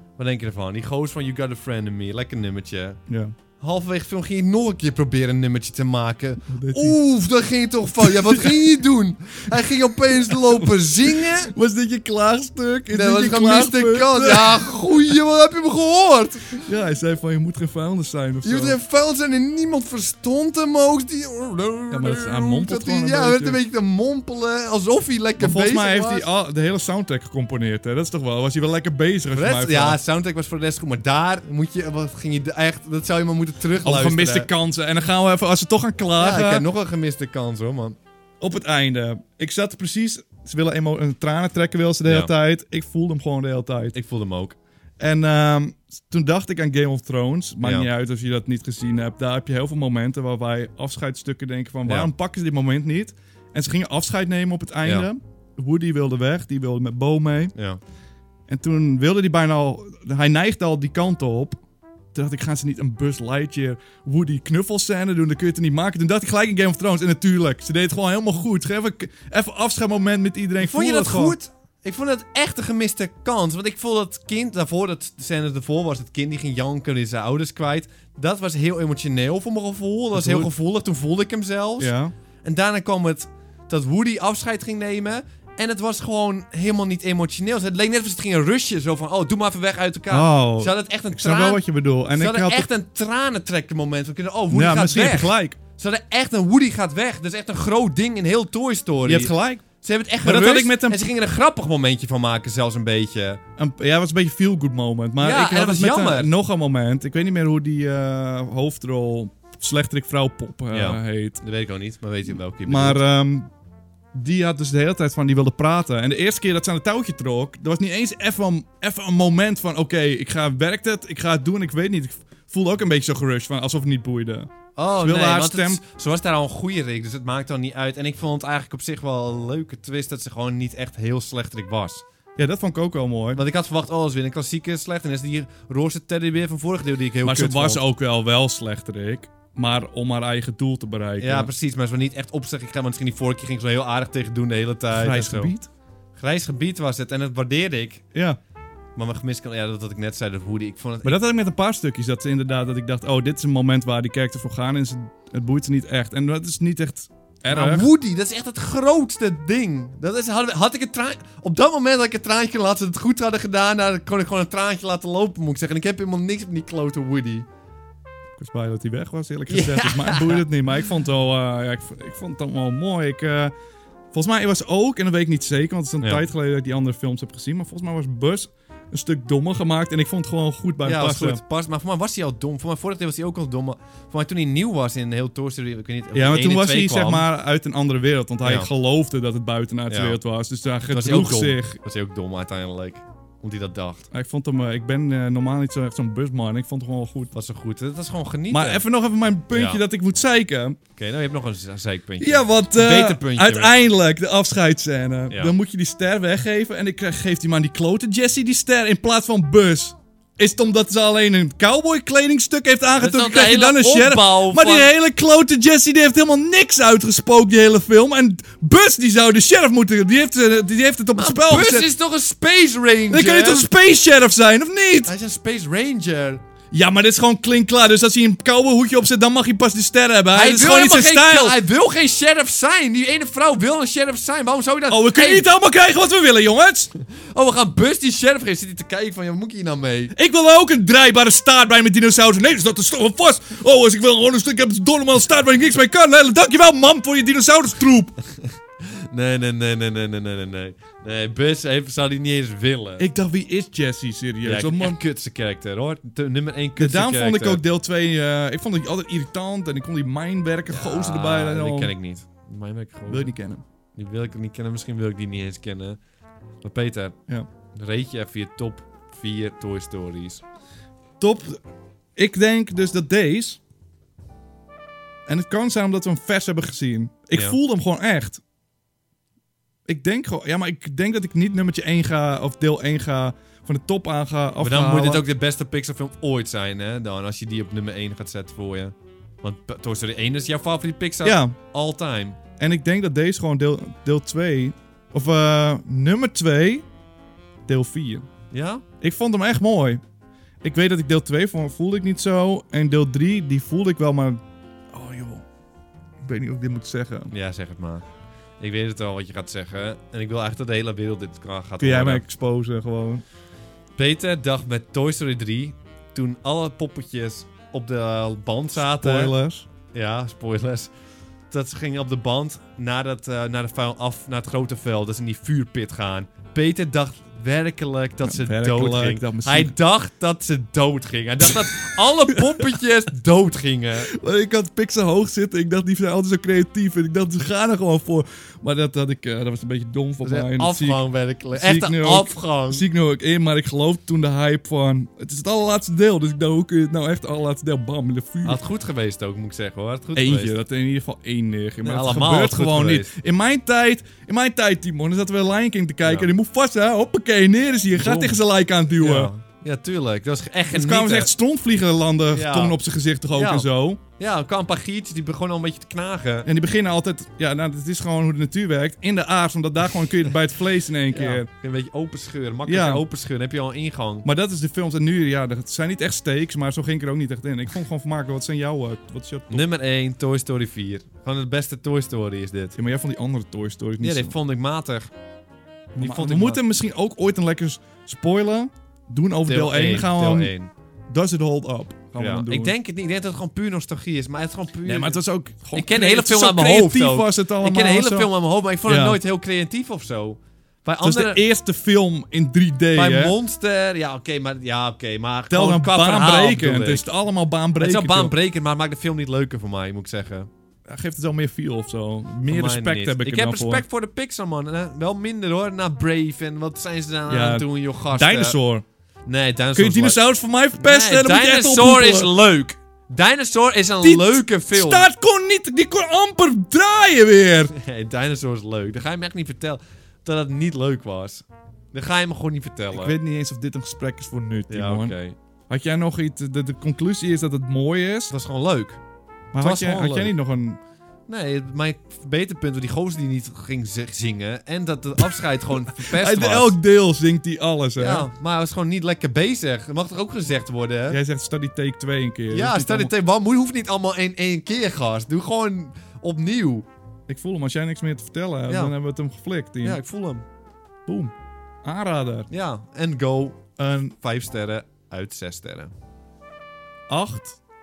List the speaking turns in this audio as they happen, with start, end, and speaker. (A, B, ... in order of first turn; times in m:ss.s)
0:00.2-0:03.0 A
0:03.1-0:03.3 B
0:03.6-0:11.5 A
0:06.5-0:07.0 B
0:08.0-0:08.7 B
0:10.3-0:15.0 B
0:12.9-0:16.6 A
0:16.6-0:18.8 B
0:18.4-0:26.3 A
0:21.9-0:23.6 B
0:25.4-0:30.0 B
0:29.3-0:34.5 A
0:33.8-0:36.6 B
0:36.2-0:38.0 A
0:38.4-0:43.9 B
0:42.0-0:42.3 A
0:43.9-0:44.6 A
0:45.0-0:57.5 B
0:47.6-0:47.9 A
0:51.8-0:52.1 A
0:54.8-0:55.1 A
0:57.5-0:57.8 A
0:58.5-1:01.6 B
1:02.1-1:11.4 B
1:10.6-1:21.9 A
1:20.1-1:20.5 B
1:21.8-1:22.1 B
1:22.4-1:43.4 A
1:30.1-1:32.7 B
1:34.5-1:35.6 B
1:39.0-1:39.6 B
1:40.2-1:41.1 B
1:43.6-1:51.4 B
1:45.2-1:46.3 A
1:50.7-1:53.0 A
1:52.6-1:53.5 B
1:54.1-2:05.8 B
2:04.8-2:12.0 A
2:12.4-2:13.4 B
2:13.3-2:17.8 A
2:17.2-2:21.5 B
2:21.2-2:25.5 A
2:24.9-2:25.7 B
2:26.2-2:28.0 A
2:28.9-2:31.2 A
2:31.0-2:37.9 B
2:37.5-2:47.4 A
2:48.4-2:53.5 B
2:49.5-2:50.4 A
2:54.1-3:01.4 B
3:00.8-3:07.3 A
3:06.1-3:11.8 B
3:08.4-3:08.7 A
3:09.9-3:10.2 A
3:10.9-3:14.1 A
3:14.1-3:17.3 B
3:17.3-3:18.8 A
3:18.5-3:20.8 B
3:19.5-3:19.8 A
3:21.0-3:23.7 A
3:22.2-3:41.9 B
3:25.3-3:25.6 A
3:33.0-3:34.9 A
3:41.1-3:43.6 A
3:43.1-3:45.1 B
3:45.0-3:46.4 A
3:46.7-3:51.6 B
3:50.3-3:55.5 A
3:54.9-3:56.9 B
3:57.0-4:00.1 A
4:00.1-4:08.1 B
4:08.8-4:13.1 A
4:13.0-4:15.0 B
4:14.4-4:17.6 A
4:16.8-4:21.9 B
4:20.7-4:23.3 A
4:23.1-4:23.6 B
4:23.9-4:26.0 A
4:26.6-4:27.2 A
4:27.7-4:30.4 A
4:31.2-4:31.6 B
4:32.2-4:33.6 B
4:35.3-4:38.4 B
4:37.3-4:37.6 A
4:39.9-4:45.2 B
4:44.6-4:52.4 A
4:51.2-4:51.5 B
4:52.6-4:56.8 B
4:57.7-4:58.2 B
4:58.5-4:58.8 A
4:59.0-5:00.0 B
5:00.6-5:04.4 B
5:04.9-5:05.4 B
5:06.2-5:07.3 B
5:07.3-5:08.0 A
5:08.6-5:12.2 A
5:11.8-5:13.2 B
5:14.0-5:19.4 A
5:18.7-5:19.6 B
5:19.9-5:20.9 A
5:21.5-5:34.1 A
5:28.2-5:29.7 B
5:34.0-5:41.0 B
5:40.2-5:42.8 A
5:41.5-5:48.6 B
5:48.4-5:50.6 A
5:50.2-5:59.3 B
5:51.8-5:53.1 A
5:56.0-5:56.3 A
5:57.9-5:58.4 A
5:59.0-6:01.3 A
6:00.7-6:04.0 B
6:02.3-6:02.8 A
6:03.3-6:06.5 A
6:06.4-6:11.5 B
6:11.1-6:14.3 A
6:12.7-6:13.0 B
6:14.2-6:19.6 B
6:19.5-6:22.8 A
6:22.8-6:24.3 B
6:24.0-6:25.1 A
6:26.0-6:30.5 B
6:26.0-6:26.6 A
6:29.4-6:30.7 A
6:31.1-6:32.7 B
6:32.2-6:35.2 A
6:34.8-6:38.3 B
6:35.7-6:41.4 A
6:38.8-6:39.2 B
6:41.0-6:43.3 B
6:42.9-6:47.1 A
6:45.5-6:48.3 B
6:47.8-6:50.5 A
6:50.8-6:53.8 B
6:52.4-6:58.6 A
6:57.3-6:58.8 B
6:59.2-7:00.2 A
6:59.7-7:02.3 B
7:00.7-7:05.1 A
7:04.0-7:07.7 B
7:07.7-7:13.2 A
7:12.9-7:15.1 B
7:14.7-7:15.4 A
7:15.7-7:18.3 B
7:18.3-7:19.0 A
7:19.5-7:20.8 B
7:19.6-7:20.3 A
7:21.3-7:26.8 A
7:26.0-7:28.3 B
7:28.0-7:31.2 A
7:31.1-7:33.1 B
7:32.5-7:36.9 A
7:37.3-7:40.0 B
7:38.7-7:38.9 A
7:39.8-7:40.4 A
7:41.1-7:41.3 B
7:41.8-7:42.5 B
7:42.5-7:45.9 A
7:43.8-7:44.1 B
7:47.1-7:47.6 B